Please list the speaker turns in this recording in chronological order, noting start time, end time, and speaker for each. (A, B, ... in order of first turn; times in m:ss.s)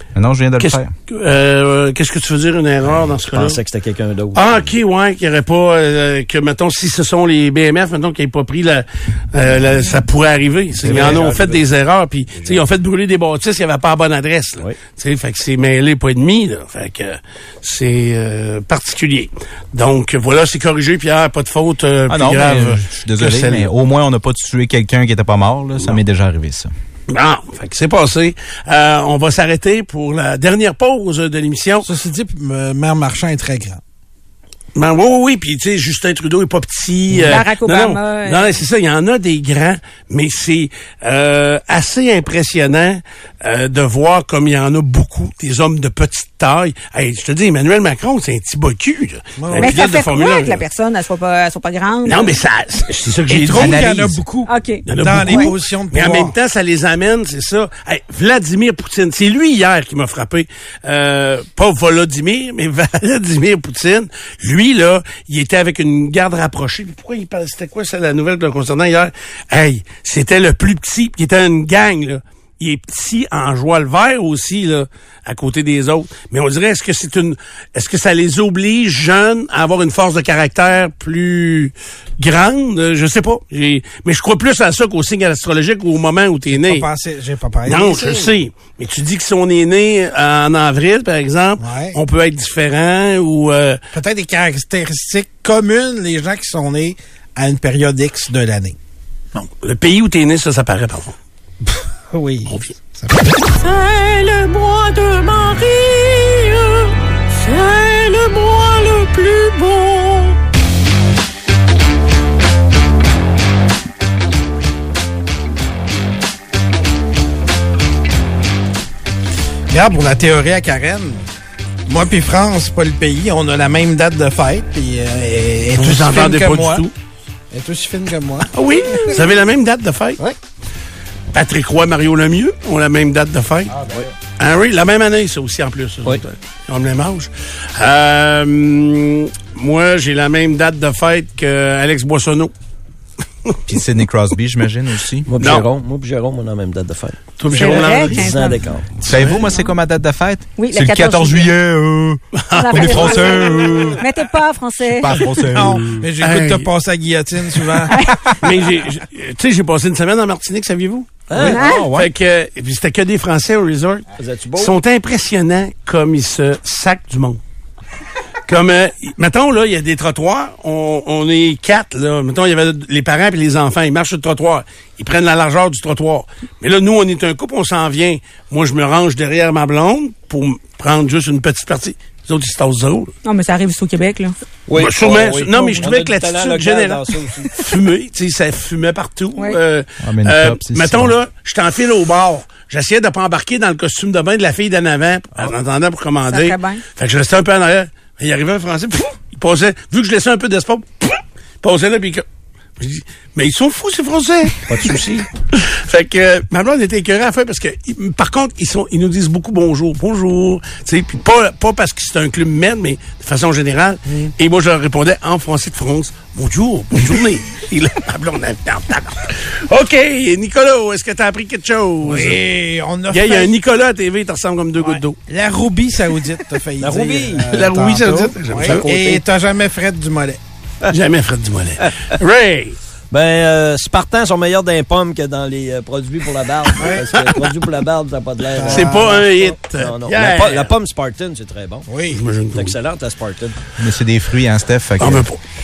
0:00.1-0:00.9 A
0:00.6-0:03.6 B
0:02.8-0:04.7 C
0:04.3-0:23.7 B
0:10.8-0:11.6 C
0:12.3-0:12.6 C
0:22.1-0:26.7 A
0:27.1-0:31.9 B
0:31.8-0:33.8 D
0:34.7-0:50.6 B
0:37.2-0:38.6 E
0:49.4-0:49.9 D
0:49.6-0:52.4 E
0:52.0-0:53.8 B
0:53.3-0:56.3 D
0:53.5-0:54.2 A
0:54.5-0:55.5 E
0:54.8-1:26.8 B
1:26.5-1:28.3 D
1:27.7-1:33.8 B
1:31.6-1:32.0 D
1:33.9-1:38.8 D
1:39.4-1:41.1 B
1:42.1-1:43.2 D
1:42.5-1:42.7 B
1:43.6-1:50.3 F
1:59.7-2:01.2 D
2:01.9-2:06.9 D
2:05.7-2:06.9 B
2:07.5-2:09.2 D
2:08.5-2:10.2 B
2:11.3-2:13.7 B
2:14.4-2:22.5 B
2:23.7-2:25.3 A
2:25.2-2:29.1 C
2:27.4-2:28.3 B
2:27.5-2:28.6 E
2:29.0-2:34.0 A
2:29.0-2:29.5 B
2:30.6-2:31.5 E
2:32.4-2:33.9 B
2:32.6-2:35.3 E
2:34.8-2:35.9 A
2:35.5-2:38.1 D
2:36.2-2:36.7 B
2:37.9-2:38.3 E
2:38.4-2:44.1 B
2:41.3-2:41.6 C
2:41.4-2:41.9 D
2:41.4-2:41.9 E
2:44.2-2:44.8 C
2:44.6-2:47.4 B
2:48.5-3:03.1 B
3:03.2-3:04.3 E
3:04.7-3:07.7 C
3:04.8-3:22.2 B
3:10.0-3:11.1 A
3:16.3-3:16.8 E
3:22.8-3:42.4 B
3:24.6-3:25.3 C
3:42.0-3:43.5 D
3:43.1-3:45.2 B
3:44.8-3:50.4 D
3:46.8-3:47.5 C
3:47.5-3:48.8 B
3:48.6-3:49.2 C
3:50.9-3:52.8 B
3:53.1-4:01.9 C
3:58.5-3:59.5 D
3:58.7-4:00.7 B
4:01.9-4:02.2 D
4:02.1-4:02.7 B
4:02.5-4:03.6 C
4:03.8-4:05.2 A
4:05.0-4:05.4 B